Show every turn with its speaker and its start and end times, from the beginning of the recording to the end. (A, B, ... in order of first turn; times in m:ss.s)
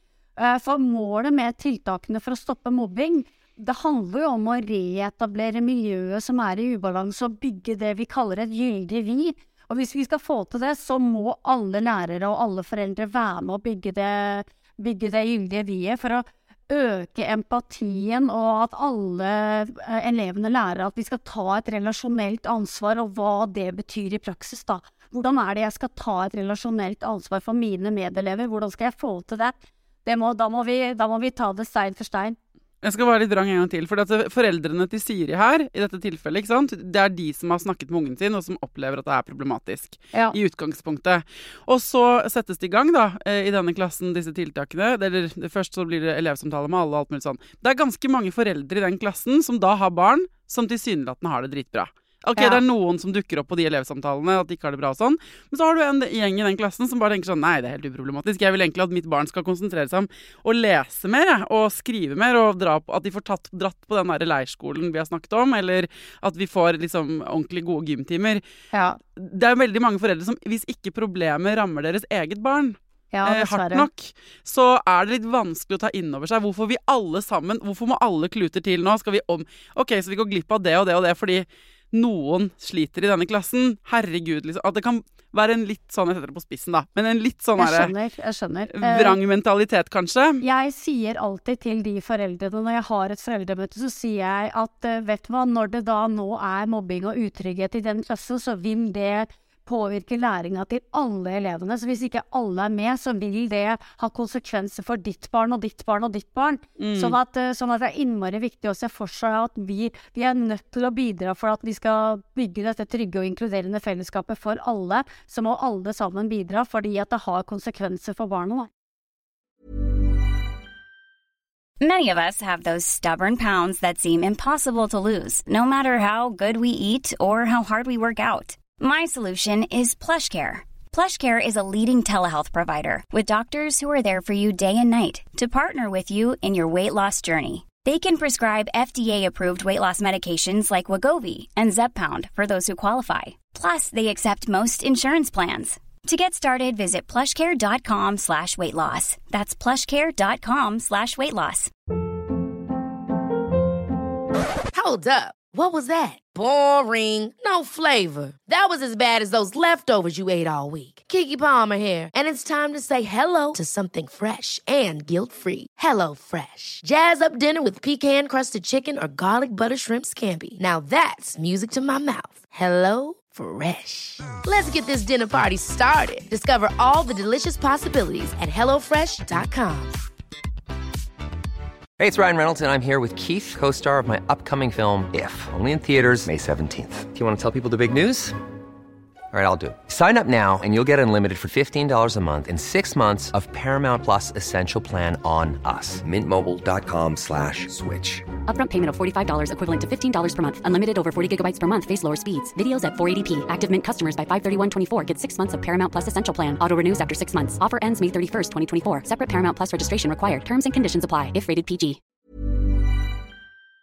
0:00.4-0:32.4 A
0:32.8-1:08.4 B
0:52.4-0:52.6 A
1:08.7-1:09.0 A
1:09.2-1:27.9 B
1:13.1-1:13.9 A
1:27.6-1:29.2 A
1:28.7-1:30.4 B
1:30.4-1:58.7 A
1:46.8-1:47.2 B
2:01.8-2:31.7 C
2:34.7-3:00.0 D
3:02.0-3:08.4 E
3:09.3-3:18.3 E
3:18.5-3:32.0 F